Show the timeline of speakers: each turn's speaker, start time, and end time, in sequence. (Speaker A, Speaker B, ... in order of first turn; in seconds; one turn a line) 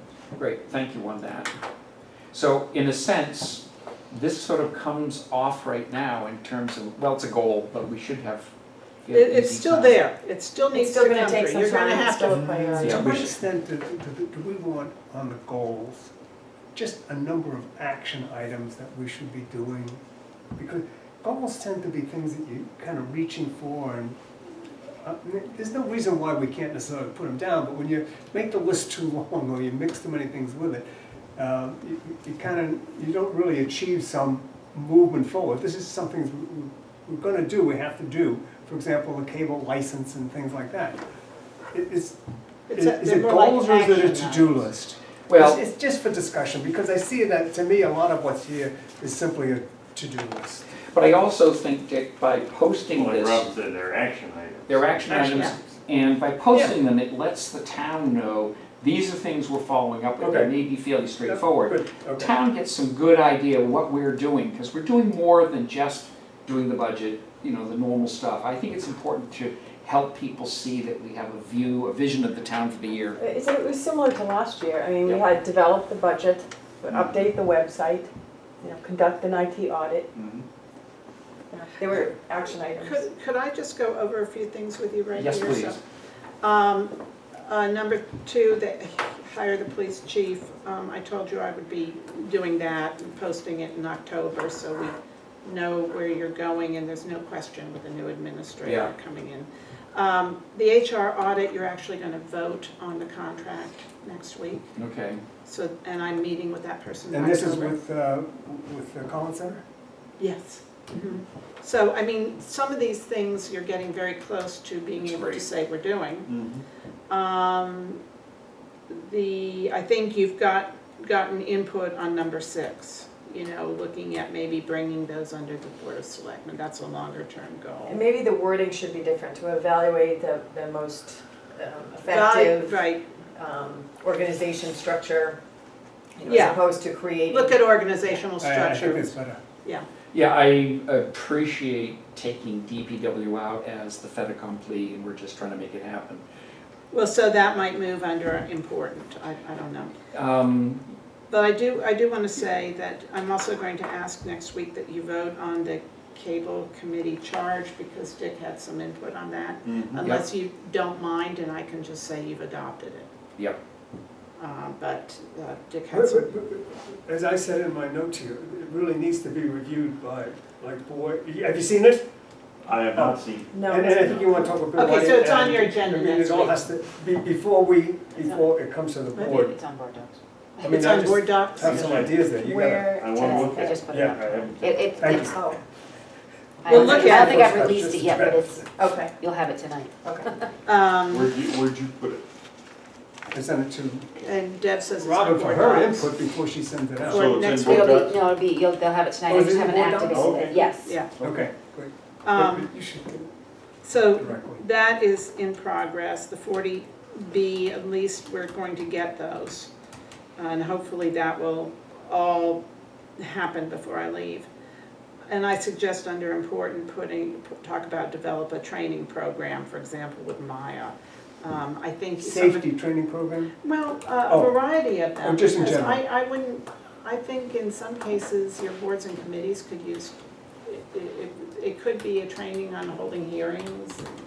Speaker A: 0.4-1.5
Speaker A: 2.3-8.5
Speaker A: 9.0-10.0
Speaker B: 9.1-12.4
Speaker C: 10.7-13.3
Speaker D: 12.3-16.1
Speaker A: 12.8-13.3
Speaker D: 16.7-20.0
Speaker D: 20.6-24.2
Speaker D: 25.0-30.8
Speaker D: 31.4-41.0
Speaker D: 41.7-42.2
Speaker B: 42.7-44.7
Speaker D: 42.7-50.6
Speaker A: 45.3-45.6
Speaker A: 50.9-53.5
Speaker E: 52.9-55.5
Speaker A: 54.7-73.2
Speaker B: 55.1-55.5
Speaker D: 60.2-62.3
Speaker C: 73.2-78.1
Speaker C: 78.6-80.1
Speaker A: 80.2-80.4
Speaker C: 81.5-83.0
Speaker B: 82.8-85.8
Speaker A: 85.1-85.8
Speaker B: 86.4-104.7
Speaker A: 98.6-98.9
Speaker A: 104.8-105.2
Speaker B: 105.4-107.3
Speaker D: 107.1-109.6
Speaker F: 107.3-107.7
Speaker B: 110.2-116.3
Speaker A: 115.0-115.5
Speaker E: 116.3-116.6
Speaker B: 117.1-118.0
Speaker B: 118.9-128.0
Speaker C: 127.8-135.4
Speaker B: 132.1-133.0
Speaker C: 136.2-138.1
Speaker B: 136.2-136.6
Speaker B: 137.3-139.0
Speaker D: 138.4-139.4
Speaker A: 140.1-146.2
Speaker B: 146.9-149.9
Speaker A: 150.1-150.8
Speaker B: 151.3-163.1
Speaker E: 159.8-160.0
Speaker B: 164.4-166.2
Speaker D: 165.9-172.1
Speaker E: 172.6-174.4
Speaker D: 172.9-179.7
Speaker C: 173.5-174.9
Speaker B: 174.8-176.6
Speaker F: 175.6-176.0
Speaker F: 179.2-180.1
Speaker B: 180.6-182.0
Speaker D: 180.6-183.2
Speaker F: 181.0-181.7
Speaker E: 181.6-182.3
Speaker C: 182.3-183.7
Speaker E: 182.9-185.3
Speaker F: 183.1-185.3
Speaker D: 183.8-184.3
Speaker D: 184.9-185.4
Speaker C: 185.3-185.6
Speaker D: 186.6-188.7
Speaker F: 186.6-188.6
Speaker B: 186.7-187.7
Speaker C: 188.8-189.2
Speaker F: 189.2-190.4
Speaker C: 190.0-190.3
Speaker B: 190.6-191.3
Speaker E: 191.1-192.2
Speaker D: 193.3-194.2
Speaker B: 194.2-196.1
Speaker D: 194.9-197.6
Speaker F: 195.6-195.9
Speaker B: 197.0-198.2
Speaker E: 197.0-198.3
Speaker F: 197.6-201.0
Speaker D: 199.3-200.7
Speaker E: 199.8-201.3
Speaker B: 200.7-201.1
Speaker D: 201.2-203.3
Speaker B: 202.2-202.6
Speaker B: 203.8-209.7
Speaker D: 204.1-204.6
Speaker B: 210.4-212.6
Speaker B: 213.2-214.5
Speaker B: 215.3-222.6
Speaker D: 222.2-223.6
Speaker B: 223.6-234.1
Speaker D: 224.3-226.0